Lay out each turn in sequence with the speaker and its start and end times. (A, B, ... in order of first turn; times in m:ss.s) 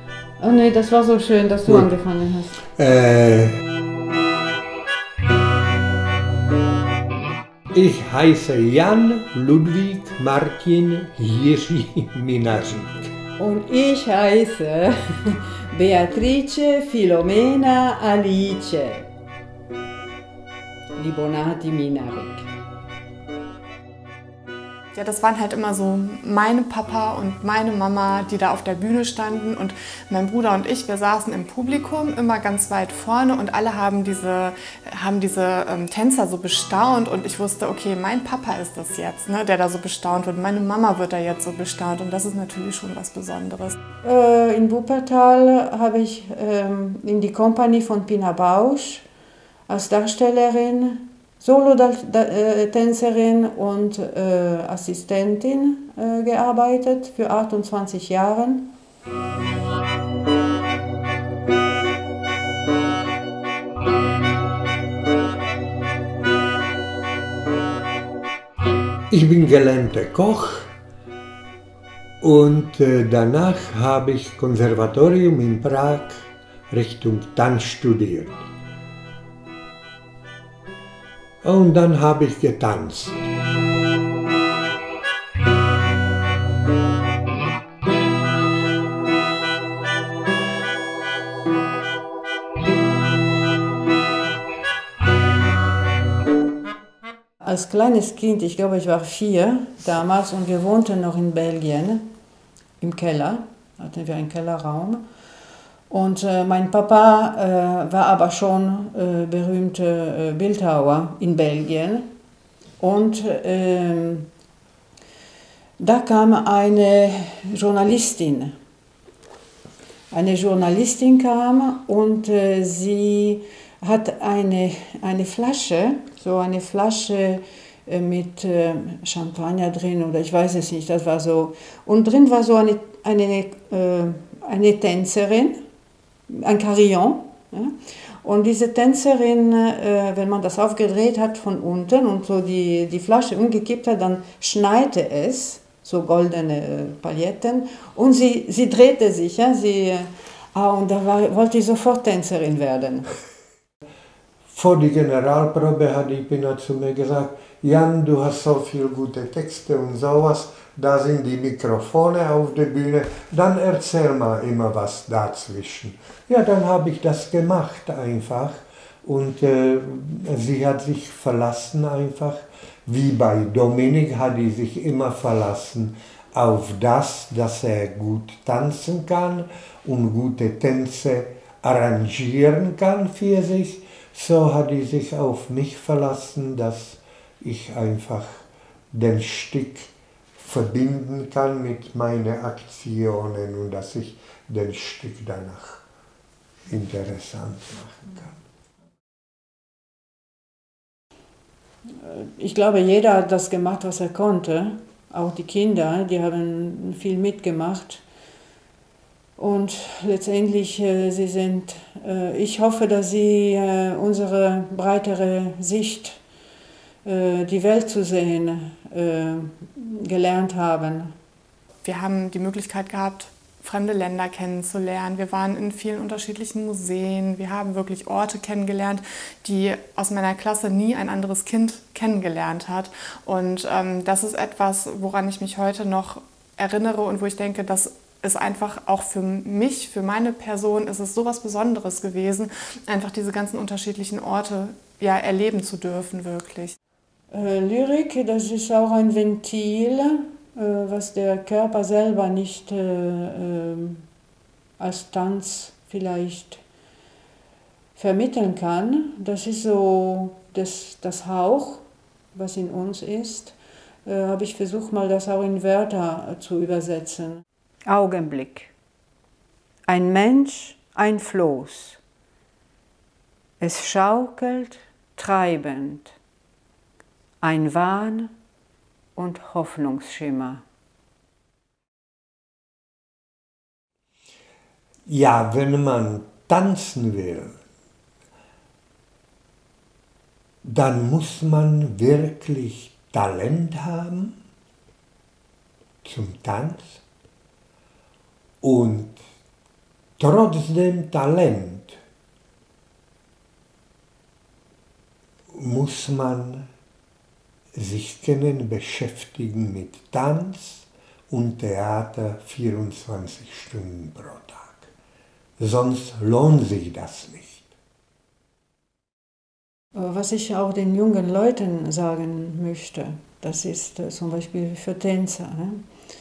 0:00.4-0:02.6 A
0:02.8-0:03.6 B
0:07.7-0:13.1 B
0:13.4-0:19.1 A
0:21.0-0:22.5 A
0:24.9-0:43.8 C
0:44.0-0:49.1 A
0:49.7-0:58.7 A
1:09.1-1:10.7 B
1:12.2-1:18.5 B
1:21.4-1:23.3 B
1:37.4-1:42.1 A
1:42.8-1:45.0 A
1:45.9-1:52.1 A
1:52.8-1:54.3 A
1:55.8-1:58.5 A
2:00.1-2:15.6 A
2:16.3-2:33.1 A
2:34.5-3:15.8 B
3:16.7-3:18.4 B
3:22.0-3:28.0 A
3:29.4-3:36.2 A
3:37.0-3:41.1 A
3:41.8-4:06.8 C
4:07.3-4:14.0 A
4:14.8-4:16.6 A
4:18.0-4:28.7 A
4:29.9-4:32.0 A
4:33.6-4:36.2 A
4:37.4-4:38.3 A
4:39.2-4:40.6 A
4:45.1-4:47.6 B
4:50.6-4:54.4 B
4:56.0-4:57.0 B
4:58.6-4:59.2 B
5:00.2-5:02.0 B
5:05.5-5:06.7 B
5:07.8-5:14.9 B
5:15.6-5:17.7 B
5:20.0-5:25.8 A